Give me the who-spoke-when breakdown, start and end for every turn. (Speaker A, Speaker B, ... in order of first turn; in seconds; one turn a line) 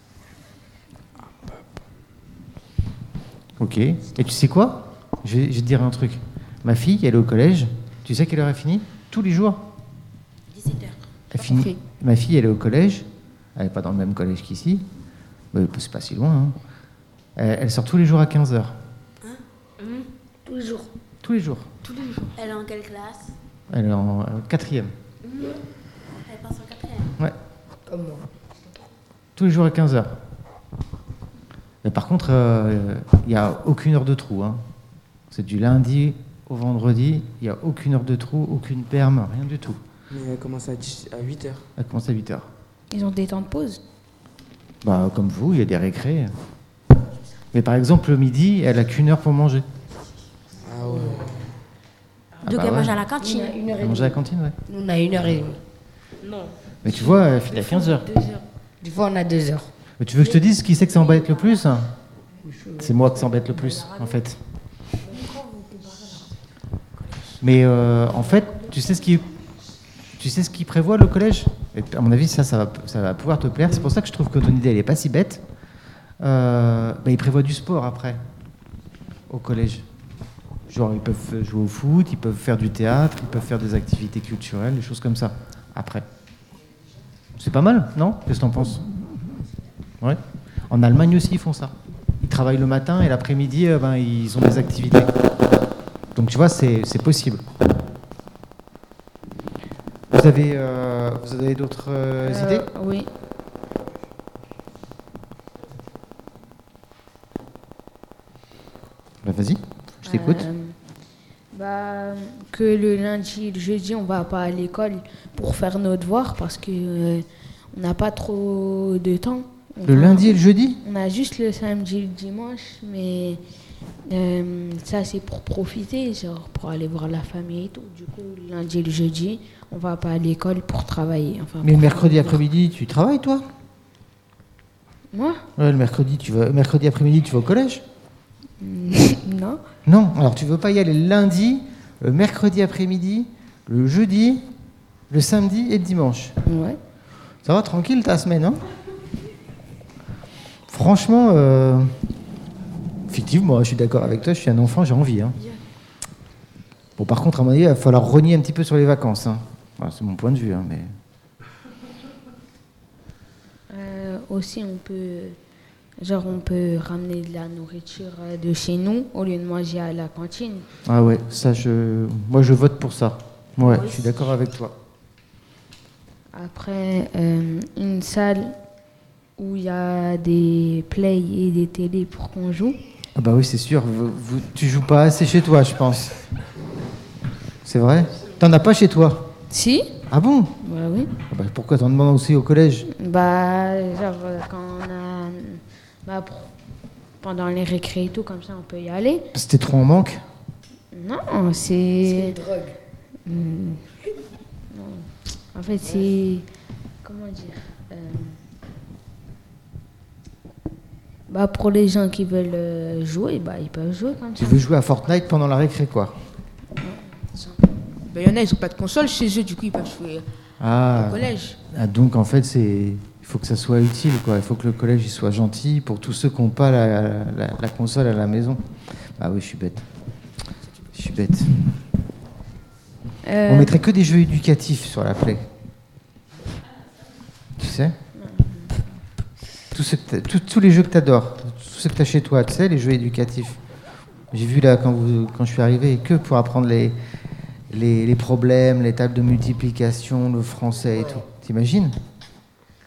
Speaker A: 3.6-9.7
Speaker B: 10.5-11.0
Speaker A: 11.3-14.8
Speaker C: 11.4-11.8
Speaker A: 15.5-16.6
Speaker A: 17.4-18.7
Speaker B: 19.2-20.0
Speaker D: 20.4-20.9
Speaker A: 21.2-21.7
Speaker E: 21.8-22.3
Speaker B: 22.3-23.3
Speaker A: 23.7-24.9
Speaker B: 25.3-25.6
Speaker B: 26.2-27.1
Speaker D: 27.9-28.3
Speaker A: 29.4-30.2
Speaker A: 31.8-34.6
Speaker A: 35.3-39.8
Speaker F: 40.1-41.6
Speaker A: 41.8-42.5
Speaker G: 42.9-43.8
Speaker A: 44.8-46.3
Speaker A: 47.5-49.6
Speaker F: 50.6-51.4
Speaker D: 50.9-51.2
Speaker B: 52.4-53.6
Speaker A: 52.4-53.0
Speaker D: 53.2-55.6
Speaker A: 53.8-54.6
Speaker E: 56.2-58.4
Speaker A: 56.8-58.1
Speaker D: 58.8-59.7
Speaker A: 60.0-61.9
Speaker D: 62.4-63.0
Speaker A: 62.8-64.4
Speaker A: 67.4-69.3
Speaker A: 70.2-75.4
Speaker A: 76.2-78.2
Speaker A: 79.3-79.8
Speaker A: 80.7-86.0
Speaker A: 87.3-88.9
Speaker A: 90.0-95.1
Speaker A: 96.1-97.4
Speaker A: 100.1-102.7
Speaker G: 102.2-103.1
Speaker A: 109.2-110.5
Speaker G: 110.0-110.8
Speaker G: 111.5-123.4
Speaker A: 119.8-120.8
Speaker G: 124.0-132.4
Speaker A: 131.6-133.4
Speaker G: 135.1-135.4
Speaker A: 135.6-137.8
Speaker G: 138.6-139.6
Speaker A: 139.8-144.4
Speaker A: 145.1-146.3
Speaker G: 146.4-146.8
Speaker A: 147.4-148.6
Speaker A: 150.7-151.9
Speaker A: 153.1-155.4
Speaker A: 157.0-160.9
Speaker G: 163.7-165.4
Speaker G: 166.0-170.7
Speaker A: 170.8-174.7
Speaker B: 173.6-174.2
Speaker G: 176.3-178.6
Speaker G: 179.4-182.8
Speaker A: 183.1-186.2
Speaker A: 187.6-189.3
Speaker G: 189.5-189.9
Speaker A: 190.1-190.5
Speaker G: 190.6-191.1
Speaker A: 191.2-192.9
Speaker G: 192.9-196.5
Speaker G: 197.2-199.3
Speaker A: 199.3-200.2
Speaker G: 200.9-202.4
Speaker D: 202.0-202.8
Speaker G: 203.2-203.8
Speaker G: 204.7-206.4
Speaker G: 207.0-208.4
Speaker G: 211.3-214.6
Speaker A: 214.3-216.2
Speaker G: 216.8-217.6
Speaker C: 218.1-220.2
Speaker A: 220.6-228.6
Speaker C: 220.9-221.6
Speaker A: 229.2-229.8
Speaker A: 230.9-231.6
Speaker G: 233.2-233.8
Speaker A: 233.5-235.5
Speaker A: 237.6-237.9
Speaker G: 238.1-238.9
Speaker A: 239.7-243.6
Speaker A: 244.3-246.9
Speaker A: 247.7-251.9